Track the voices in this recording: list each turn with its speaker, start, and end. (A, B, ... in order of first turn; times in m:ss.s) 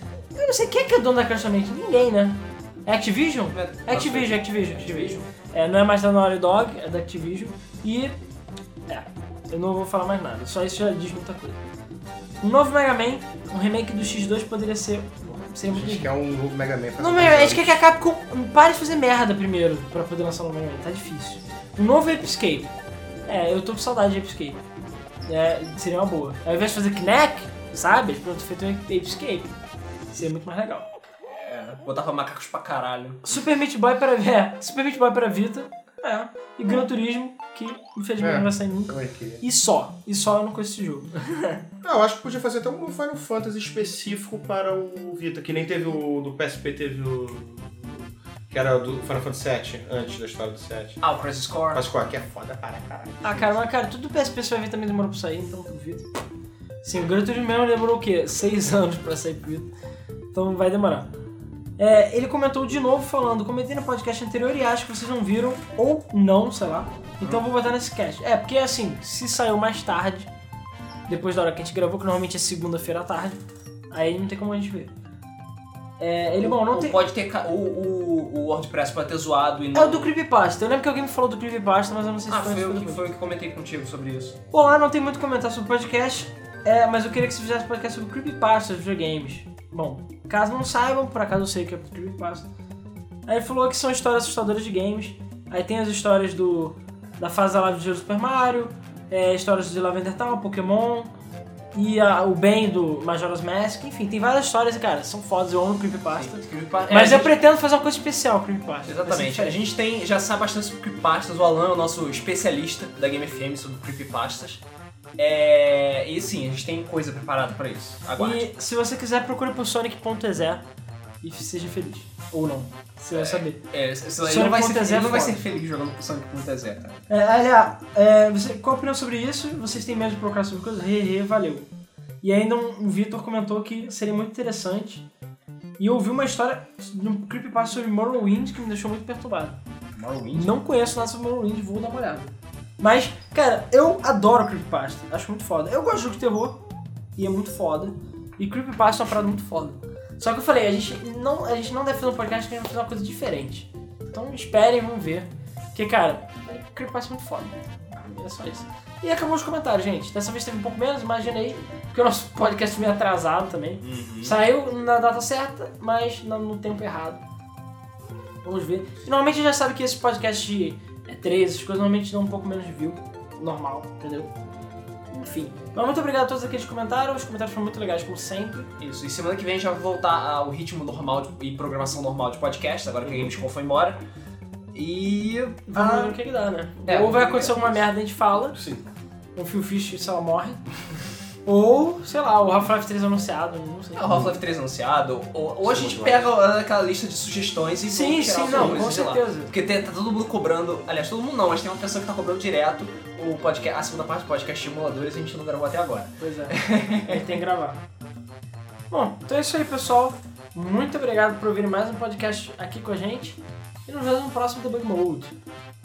0:00.3-0:08.2 A
0:03.5-0:05.2 B
0:08.9-0:11.6 A
0:12.4-0:16.1 A
0:15.5-0:17.8 C
0:17.0-0:22.7 A
0:23.2-0:24.6 A
0:25.2-0:29.5 A
0:30.1-0:30.9 A
0:31.3-0:33.2 B
0:33.2-0:41.6 A
0:38.2-0:39.4 C
0:41.8-0:51.0 C
0:51.0-0:51.8 B
0:51.7-0:53.6 C
0:53.2-0:56.0 A
0:56.8-0:59.7 A
1:00.3-1:01.1 A
1:01.8-1:10.3 A
1:11.1-1:13.4 A
1:13.9-1:14.9 A
1:16.0-1:17.0 A
1:16.4-1:20.1 B
1:19.7-1:23.0 A
1:22.3-1:24.4 B
1:24.5-1:32.5 A
1:33.2-1:41.1 A
1:41.7-1:49.6 A
1:46.1-1:47.3 B
1:48.8-1:54.6 B
1:55.2-1:58.5 B
1:58.1-2:00.6 A
2:01.2-2:03.6 A
2:03.1-2:07.0 B
2:04.2-2:05.4 A
2:07.1-2:11.6 A
2:12.2-2:15.0 A
2:15.8-2:19.6 A
2:19.9-2:20.5 B
2:20.3-2:26.6 A
2:27.2-2:47.2 A
2:43.8-2:44.4 B
2:48.4-2:54.3 A
2:55.1-2:58.7 A
2:58.8-3:04.0 B
3:04.7-3:06.2 B
3:05.7-3:08.6 A
3:06.8-3:07.8 B
3:08.5-3:08.8 C
3:09.3-3:10.6 A
3:11.4-3:14.2 A
3:13.9-3:27.3 B
3:15.6-3:16.3 C
3:17.9-3:19.5 A
3:18.5-3:18.8 C
3:26.2-3:27.8 A
3:28.9-3:35.3 A